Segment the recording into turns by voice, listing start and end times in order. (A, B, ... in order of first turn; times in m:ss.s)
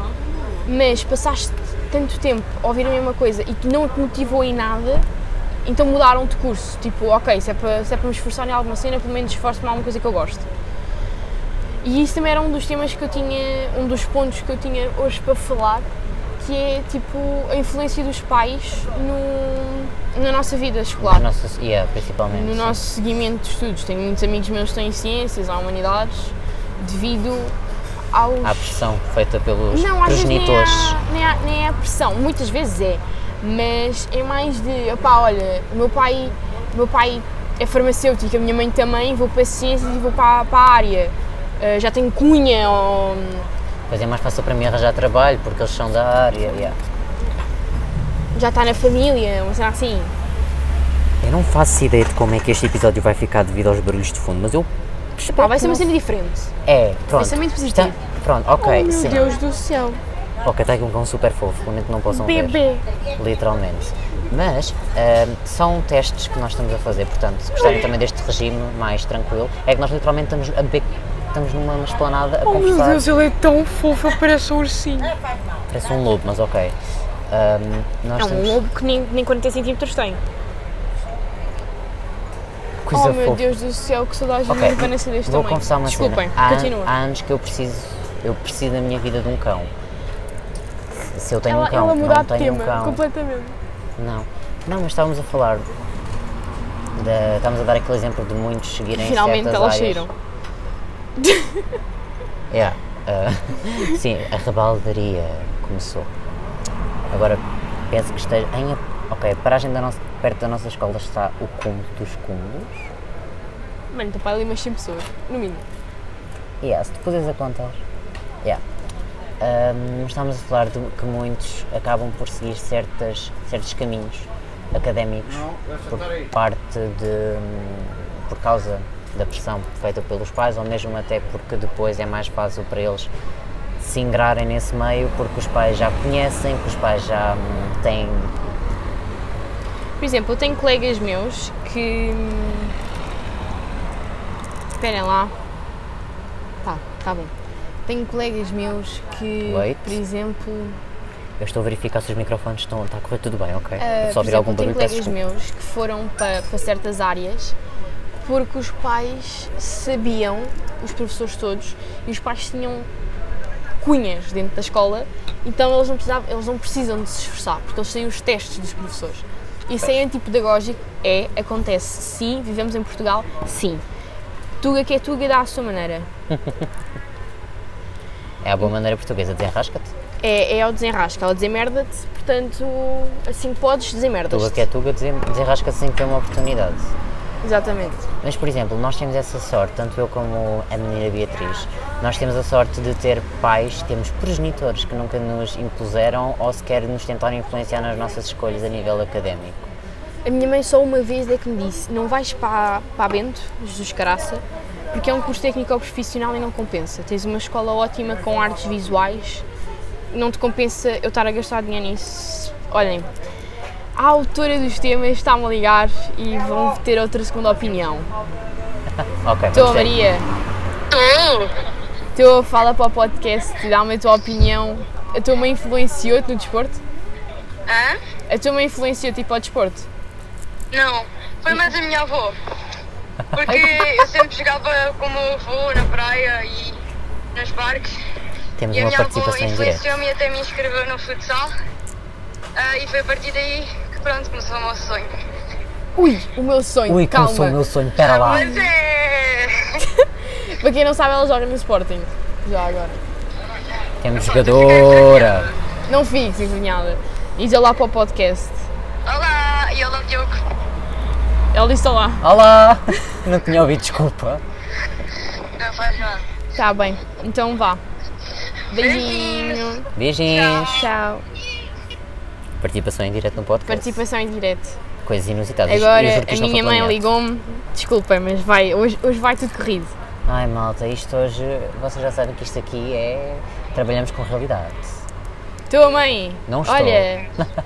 0:00.7-0:05.1 A
0:05.6-0:10.5 A
0:11.8-0:15.9 A
0:16.4-0:21.3 A
0:21.0-0:22.8 B
0:22.3-0:27.6 A
0:28.1-0:28.8 A
0:28.4-0:31.0 B
0:29.7-0:43.5 A
0:43.9-0:46.8 B
0:48.3-0:50.1 A
0:51.2-0:54.7 B
0:55.2-0:55.8 B
0:55.2-0:56.5 A
0:56.6-0:59.4 B
0:57.1-0:58.0 A
0:58.6-1:00.0 A
1:00.4-1:02.6 B
1:02.1-1:02.8 A
1:03.2-1:13.1 B
1:12.4-1:15.2 A
1:15.7-1:16.8 B
1:17.3-1:18.6 B
1:18.2-1:20.2 A
1:22.8-1:23.4 B
1:22.9-1:26.9 A
1:24.5-1:29.7 B
1:31.1-1:33.0 B
1:31.4-1:33.6 A
1:34.0-1:35.7 B
1:37.0-1:40.1 B
1:39.0-1:40.1 A
1:41.2-1:41.7 A
1:42.5-1:46.1 B
1:47.1-1:52.9 B
1:53.9-1:55.7 A
1:56.6-1:57.8 B
1:59.4-2:13.1 B
2:13.8-2:18.3 B
2:20.0-2:22.7 A
2:24.8-2:25.3 A
2:26.6-2:27.3 A
2:27.9-2:30.8 A
2:29.5-2:30.0 B
2:31.4-2:35.2 B
2:33.8-2:37.6 A
2:38.2-2:42.9 A
2:43.8-2:53.8 A
2:54.6-2:56.1 A
2:56.3-2:56.7 B
2:58.4-2:59.9 B
3:00.2-3:04.7 A
3:04.3-3:06.9 B
3:07.4-3:08.1 A
3:08.2-3:19.7 B
3:20.2-3:29.4 A
3:30.1-3:33.1 A
3:34.0-3:38.1 A
3:39.2-3:40.0 B
3:39.5-3:40.3 A
3:40.9-3:41.5 C
3:42.2-3:46.8 A
3:47.7-3:48.0 C
3:48.3-3:49.9 A
3:50.7-3:52.4 C
3:53.3-3:56.8 C
3:57.3-3:58.0 C
3:58.6-3:59.8 B
3:58.7-4:01.5 C
4:02.6-4:05.1 C
4:06.0-4:07.6 A
4:06.9-4:08.5 B
4:08.0-4:09.8 C
4:08.2-4:08.7 A
4:10.0-4:13.0 A
4:14.0-4:15.5 B
4:14.2-4:15.5 C
4:15.9-4:18.7 A
4:19.1-4:20.4 C
4:21.5-4:22.3 A
4:22.2-4:24.4 B
4:25.6-4:26.2 C
4:26.6-4:27.8 A
4:28.7-4:29.9 A
4:28.7-4:30.7 C
4:30.0-4:30.9 B
4:30.7-4:31.2 A
4:32.6-4:34.0 B
4:33.7-4:34.8 A
4:35.0-4:37.0 B
4:35.7-4:40.0 A
4:40.3-4:45.0 B
4:45.7-4:47.3 A
4:46.5-4:47.5 B